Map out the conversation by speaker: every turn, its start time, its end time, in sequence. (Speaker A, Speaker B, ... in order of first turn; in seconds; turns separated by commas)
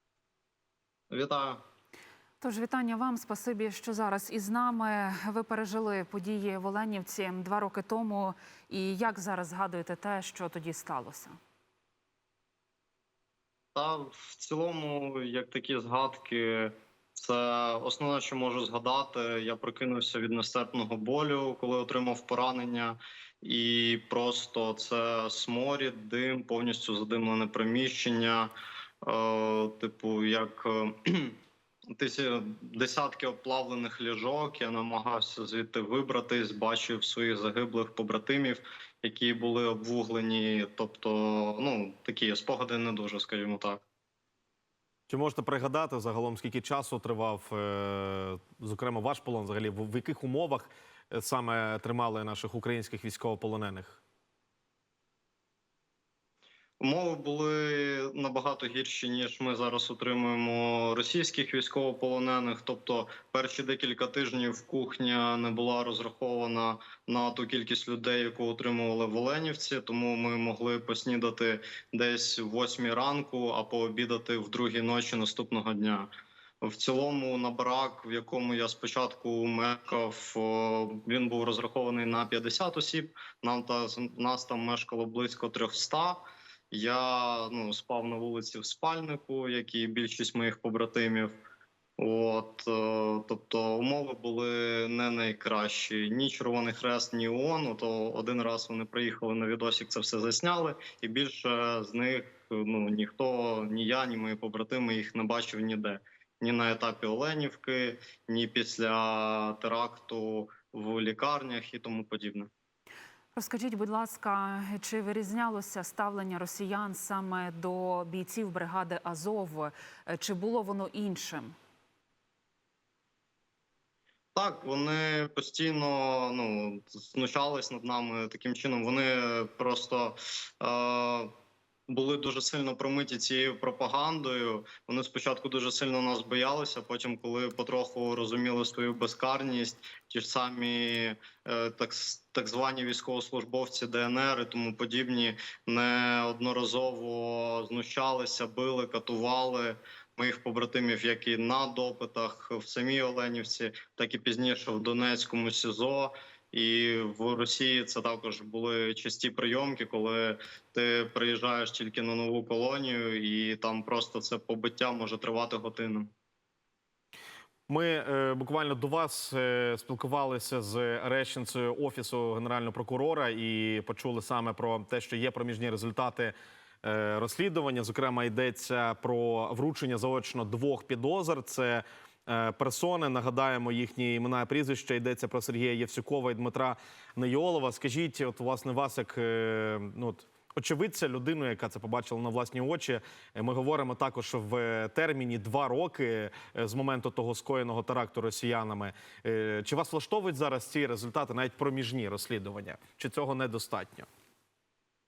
Speaker A: 1.1-1.6, Speaker B: 2.4-11.4, Speaker A: 13.7-31.4, Speaker A: 31.9-43.8, Speaker C: 45.1-54.0, Speaker A: 56.8-76.1, Speaker A: 76.6-91.3, Speaker A: 92.0-112.5, Speaker B: 113.3-121.5, Speaker A: 124.3-131.3, Speaker A: 131.9-166.1, Speaker C: 167.7-204.1